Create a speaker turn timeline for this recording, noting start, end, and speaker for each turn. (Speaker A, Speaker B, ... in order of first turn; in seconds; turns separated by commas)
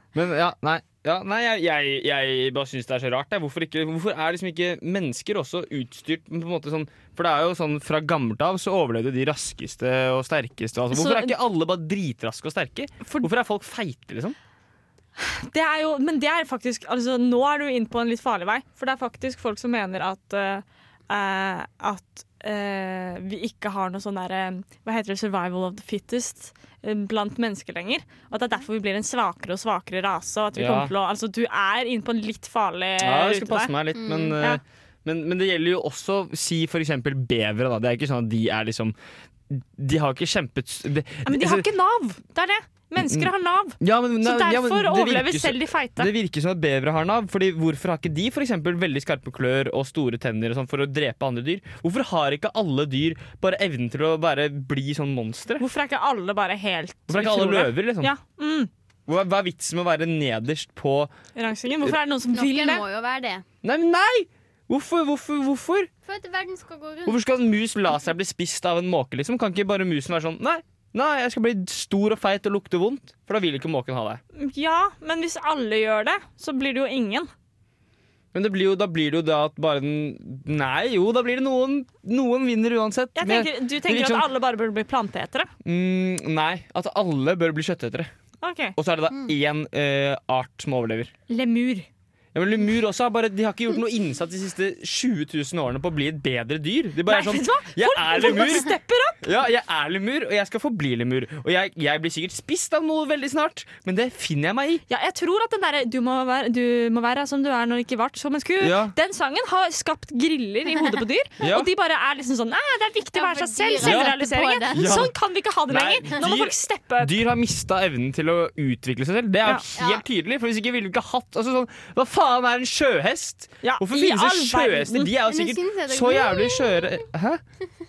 Speaker A: 0.1-14.4, Speaker B: 10.9-11.3, Speaker B: 13.0-13.3, Speaker B: 15.2-34.6, Speaker A: 30.6-30.9, Speaker A: 33.0-39.0, Speaker C: 34.0-34.4, Speaker A: 39.5-41.7, Speaker B: 41.3-46.1, Speaker A: 43.0-55.6, Speaker B: 55.6-58.7, Speaker A: 57.1-58.1, Speaker A: 59.1-61.1, Speaker B: 61.4-62.8, Speaker C: 62.3-63.5, Speaker A: 63.6-65.9, Speaker C: 66.1-67.2, Speaker A: 67.1-74.2, Speaker B: 74.3-77.3, Speaker A: 78.3-84.3, Speaker B: 83.2-85.5, Speaker A: 85.6-88.1, Speaker B: 88.4-88.8, Speaker A: 88.8-91.1, Speaker B: 91.3-91.9, Speaker A: 92.3-104.8, Speaker B: 97.0-99.3, Speaker B: 104.9-117.2, Speaker A: 108.6-109.0, Speaker A: 111.4-111.7, Speaker C: 113.2-115.1, Speaker A: 113.8-114.1, Speaker A: 114.7-115.1, Speaker A: 115.7-127.4, Speaker C: 119.8-120.0, Speaker B: 123.6-125.1, Speaker C: 125.3-127.1